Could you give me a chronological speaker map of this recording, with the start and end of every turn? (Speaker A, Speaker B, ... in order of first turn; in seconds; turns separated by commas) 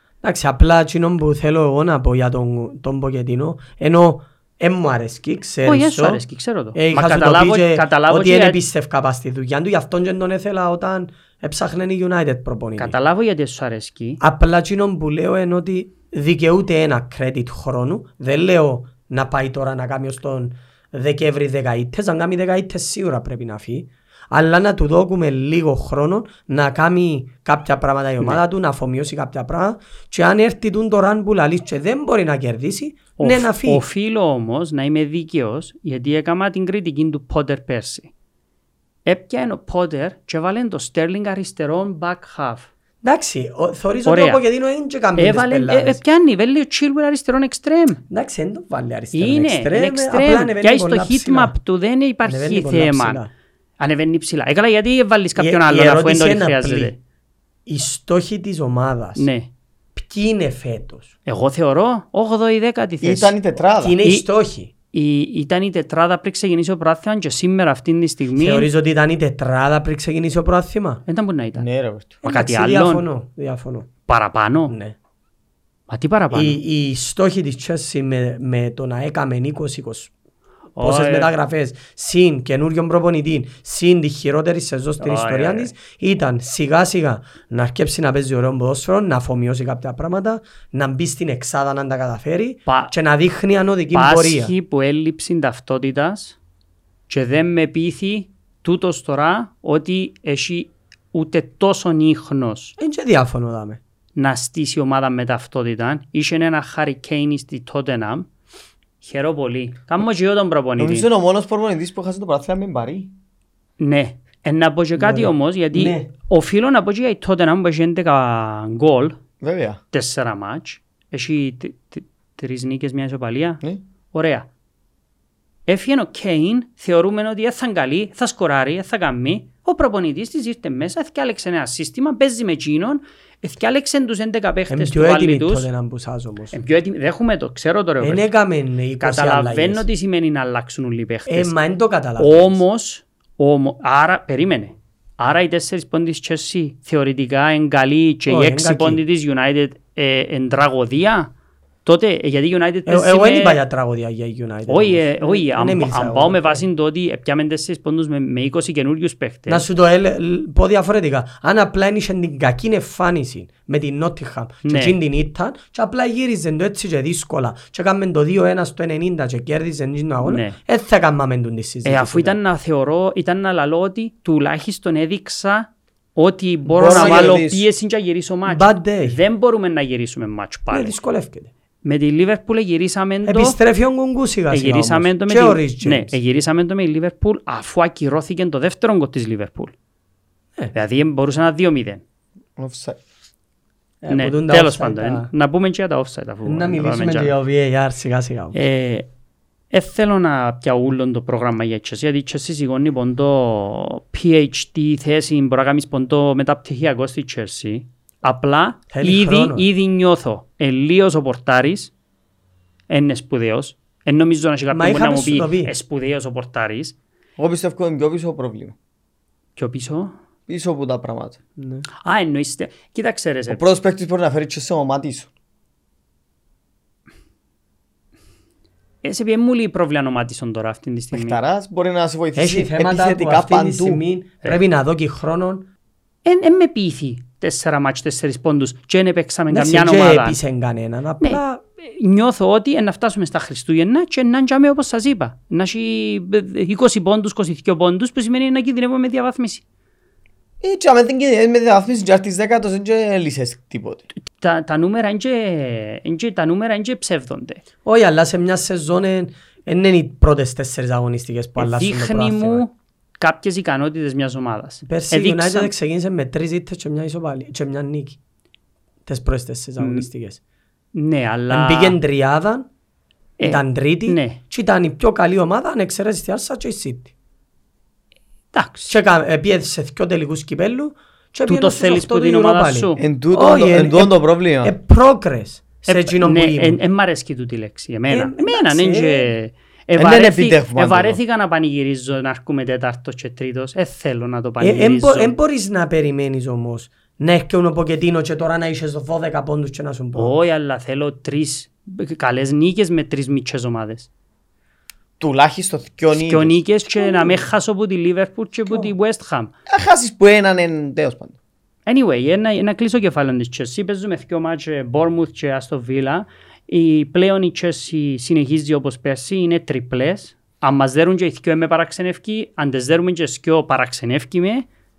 Speaker A: 0.2-6.2, Speaker B: 5.6-8.6, Speaker A: 6.7-12.9, Speaker B: 12.8-14.2, Speaker A: 14.2-33.8, Speaker B: 33.2-38.1, Speaker B: 39.0-42.7, Speaker A: 43.0-46.0, Speaker B: 44.0-44.4, Speaker B: 45.1-48.0, Speaker A: 48.1-51.5, Speaker B: 49.1-53.2, Speaker A: 52.2-53.3, Speaker B: 53.8-57.0, Speaker A: 55.4-56.9, Speaker A: 57.6-59.3, Speaker B: 59.1-59.5, Speaker A: 59.9-61.1, Speaker B: 61.2-63.3, Speaker C: 63.0-64.0, Speaker A: 63.8-64.7, Speaker B: 64.9-68.7, Speaker A: 68.4-71.0, Speaker B: 71.1-71.6, Speaker C: 71.5-72.2, Speaker A: 72.2-73.9, Speaker B: 72.2-73.0, Speaker B: 74.1-74.7, Speaker A: 74.7-75.0, Speaker B: 75.9-76.6, Speaker A: 76.3-80.1, Speaker B: 80.8-81.3, Speaker A: 80.8-94.5, Speaker B: 85.0-85.7, Speaker B: 92.7-92.9, Speaker B: 93.9-96.4, Speaker B: 97.1-102.7, Speaker A: 102.8-103.8, Speaker B: 104.2-108.3, Speaker B: 109.0-111.1, Speaker C: 110.8-113.1, Speaker B: 113.8-119.2, Speaker A: 115.0-116.1, Speaker C: 119.4-119.8, Speaker B: 119.9-123.6, Speaker B: 124.1-124.5, Speaker B: 125.7-135.7, Speaker A: 134.7-136.6, Speaker B: 136.5-138.3, Speaker A: 138.0-139.8, Speaker B: 139.0-141.5, Speaker A: 141.3-142.6, Speaker B: 142.2-151.3, Speaker A: 148.3-149.0, Speaker B: 151.8-153.6, Speaker A: 152.8-156.6, Speaker B: 154.7-159.7, Speaker A: 159.5-172.4, Speaker B: 164.6-164.9, Speaker B: 170.2-170.6, Speaker B: 171.8-181.0, Speaker C: 176.7-177.7, Speaker A: 176.8-177.4, Speaker A: 178.5-179.2, Speaker A: 180.7-181.5, Speaker B: 181.8-183.6, Speaker A: 183.2-186.2, Speaker B: 184.5-189.7, Speaker B: 190.7-192.0, Speaker C: 192.6-193.0, Speaker A: 194.0-195.3, Speaker B: 194.1-197.3, Speaker A: 196.4-198.6, Speaker B: 198.5-199.1, Speaker B: 199.7-211.9, Speaker A: 208.9-209.7, Speaker B: 212.9-216.9, Speaker A: 214.7-215.7, Speaker C: 217.4-218.7, Speaker B: 219.6-220.1, Speaker C: 220.5-221.4, Speaker A: 221.6-221.8, Speaker B: 222.0-223.7, Speaker C: 223.5-225.3, Speaker B: 229.0-231.4, Speaker C: 231.1-234.0, Speaker A: 232.3-235.7, Speaker B: 236.2-240.4, Speaker A: 239.5-241.6, Speaker B: 241.2-249.6, Speaker C: 250.6-254.0, Speaker B: 254.3-257.6, Speaker A: 257.8-262.6, Speaker B: 261.6-265.7, Speaker A: 264.8-268.2, Speaker A: 269.1-270.4, Speaker B: 269.8-270.1, Speaker B: 270.9-272.0, Speaker A: 271.5-272.7, Speaker B: 273.4-274.4, Speaker A: 273.4-277.1, Speaker B: 278.5-279.0, Speaker A: 278.9-286.8, Speaker B: 281.4-283.0, Speaker C: 283.0-284.7, Speaker B: 285.9-295.3, Speaker A: 288.1-289.3, Speaker C: 289.9-291.2, Speaker A: 294.6-300.3, Speaker B: 300.1-304.1, Speaker C: 305.2-306.6, Speaker B: 306.1-309.5, Speaker A: 307.1-307.4, Speaker C: 309.7-311.3, Speaker B: 311.9-324.7